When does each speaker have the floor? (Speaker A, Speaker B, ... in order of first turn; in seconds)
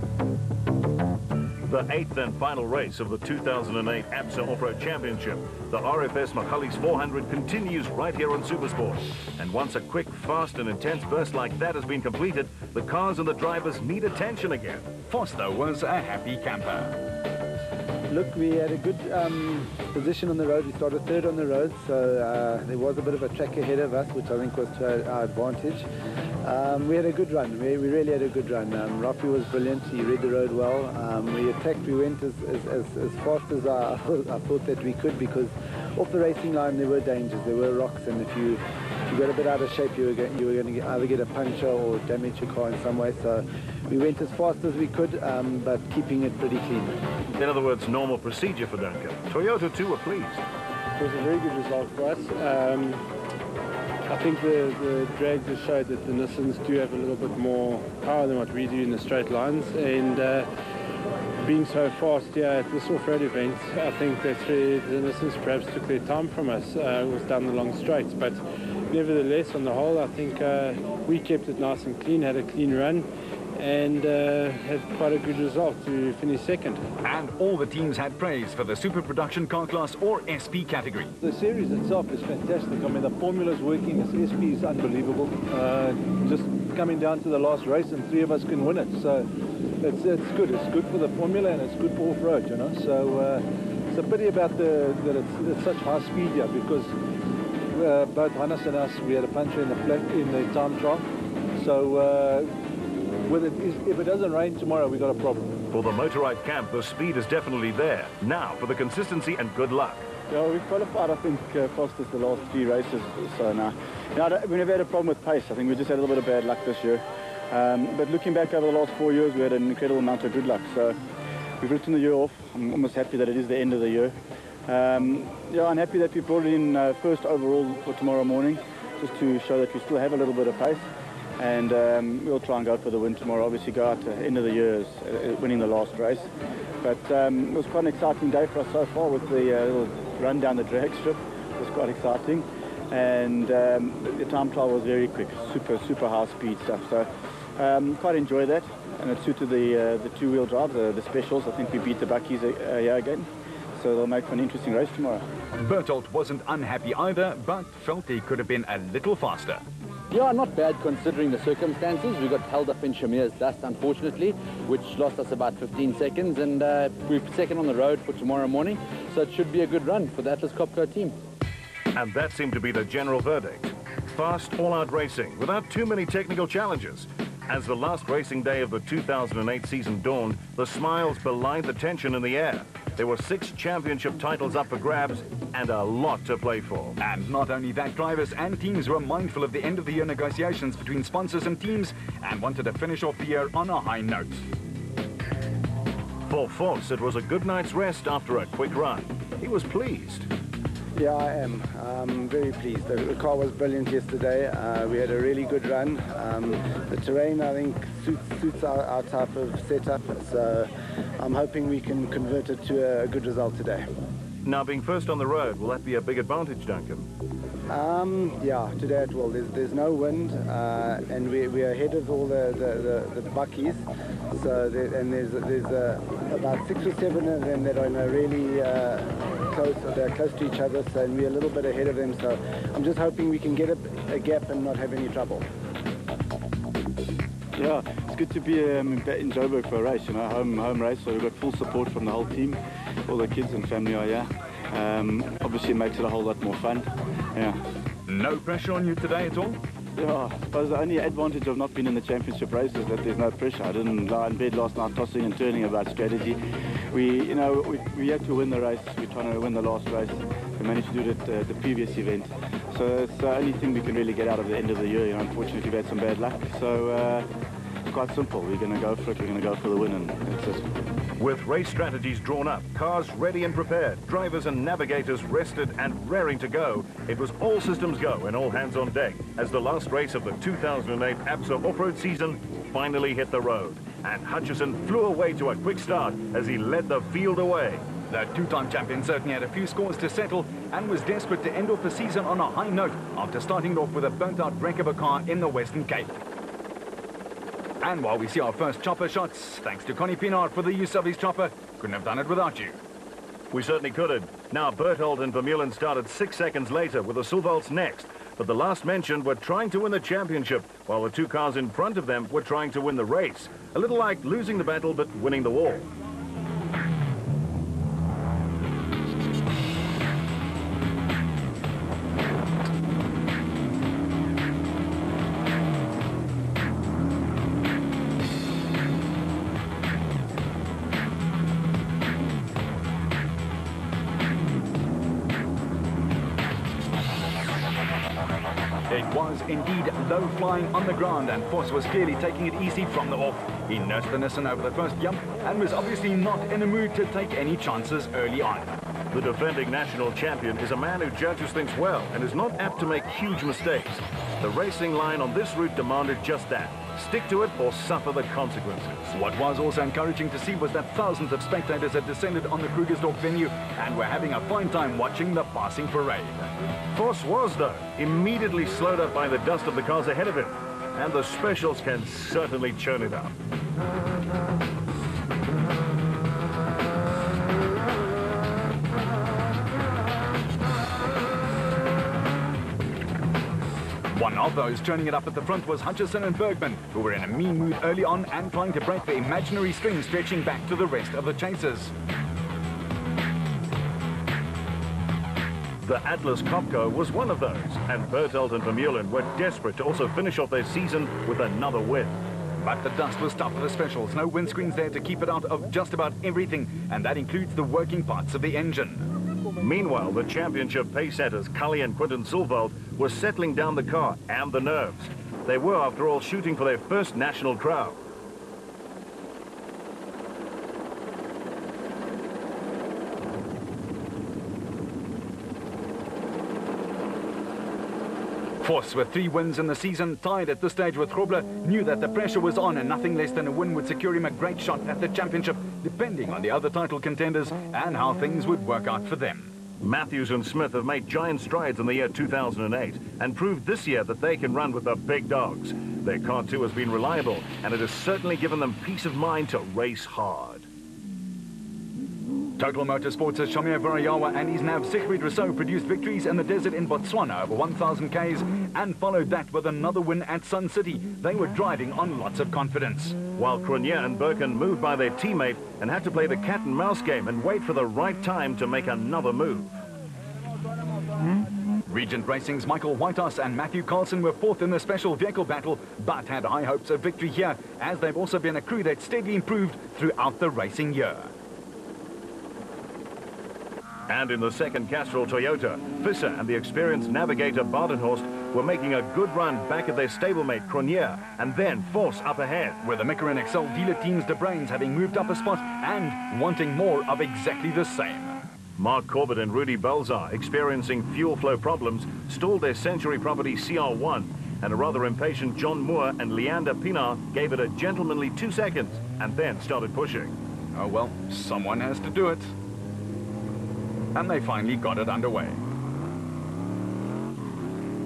Speaker A: 1.6-14.9, 47.3-50.4, 105.7-110.0, 171.9-187.0, 196.3-200.3, 214.4-217.1, 271.2-287.8, 303.5-315.9, 349.1-359.1, 366.9-373.3, 395.8-402.2, 409.6-418.0, 439.8-450.7, 463.4-469.8, 484.1-492.8, 498.8-510.3
Speaker B: 15.1-17.0, 77.0-81.1, 155.6-159.6, 187.0-194.4, 248.1-249.6, 288.1-296.1, 297.8-302.8, 338.9-348.8, 359.1-366.4, 384.1-391.9, 402.6-409.1, 428.6-439.5, 452.6-463.2, 471.9-481.3, 492.8-498.4, 510.7-512.5, 514.1-515.6
Speaker C: 18.1-25.9, 26.4-47.0, 200.9-213.8, 217.7-235.4
Speaker D: 51.0-53.0, 54.1-60.5, 61.4-76.8
Speaker E: 81.2-89.3, 89.8-96.9, 97.7-101.0, 101.5-102.5, 103.2-105.5
Speaker F: 110.3-120.9, 121.6-124.1, 124.7-130.8, 131.4-136.3, 136.8-155.2, 237.6-242.6, 243.1-247.6, 250.0-256.4, 256.9-267.2, 267.9-270.6
Speaker G: 160.1-171.2